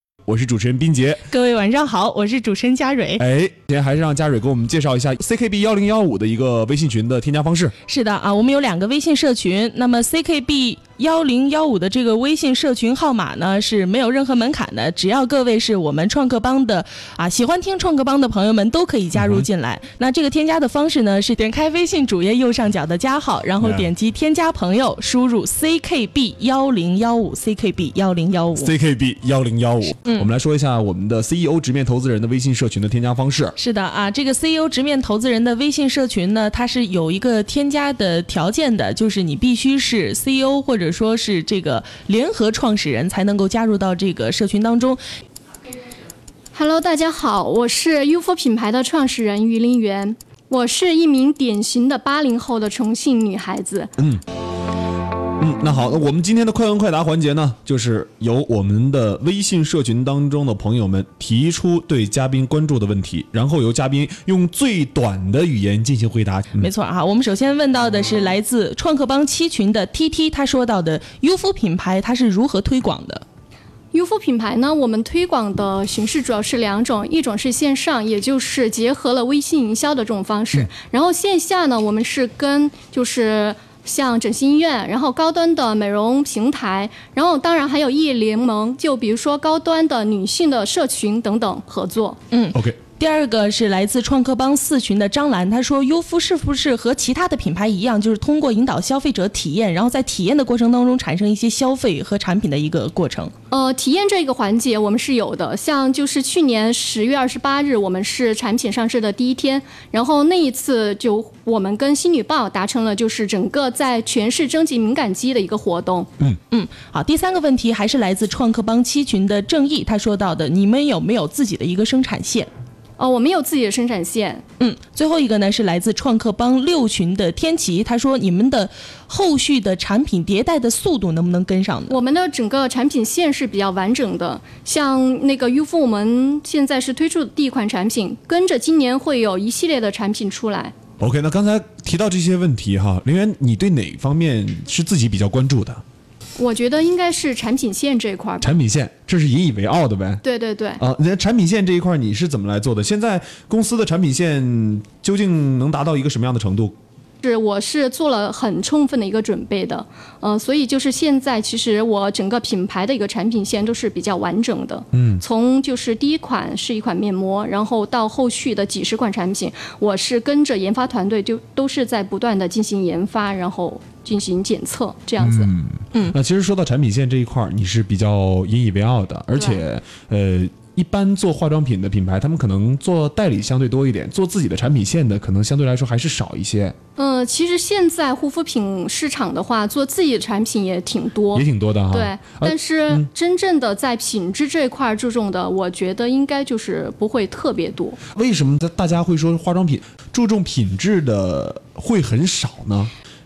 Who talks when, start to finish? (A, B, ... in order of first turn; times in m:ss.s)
0:00.2-0:01.3 A
0:01.3-0:03.2 B
0:03.2-0:07.7 A
0:07.9-0:28.7 B
0:19.1-0:19.4 A
0:23.6-0:23.9 A
0:28.6-0:33.6 A
0:30.0-0:30.3 B
0:33.6-0:45.0 B
0:46.5-0:53.9 C
0:54.0-0:54.2 A
0:55.4-1:06.7 A
1:06.6-1:13.2 B
1:13.9-1:32.2 C
1:32.3-1:43.3 B
1:32.5-1:32.8 A
1:43.5-1:56.1 C
1:56.5-2:02.5 B
2:03.0-2:04.4 C
2:04.6-2:12.0 B
2:11.9-2:20.7 C
2:21.0-2:25.8 A
2:26.4-2:28.6 C
2:28.4-2:30.2 A
2:30.2-2:30.8 C
2:30.8-2:36.7 A
2:37.2-2:55.6 C
2:44.9-2:45.2 A
2:55.2-3:06.8 A
2:59.3-2:59.6 C
3:07.0-3:18.0 C
3:11.3-3:13.1 A
3:18.1-3:22.9 A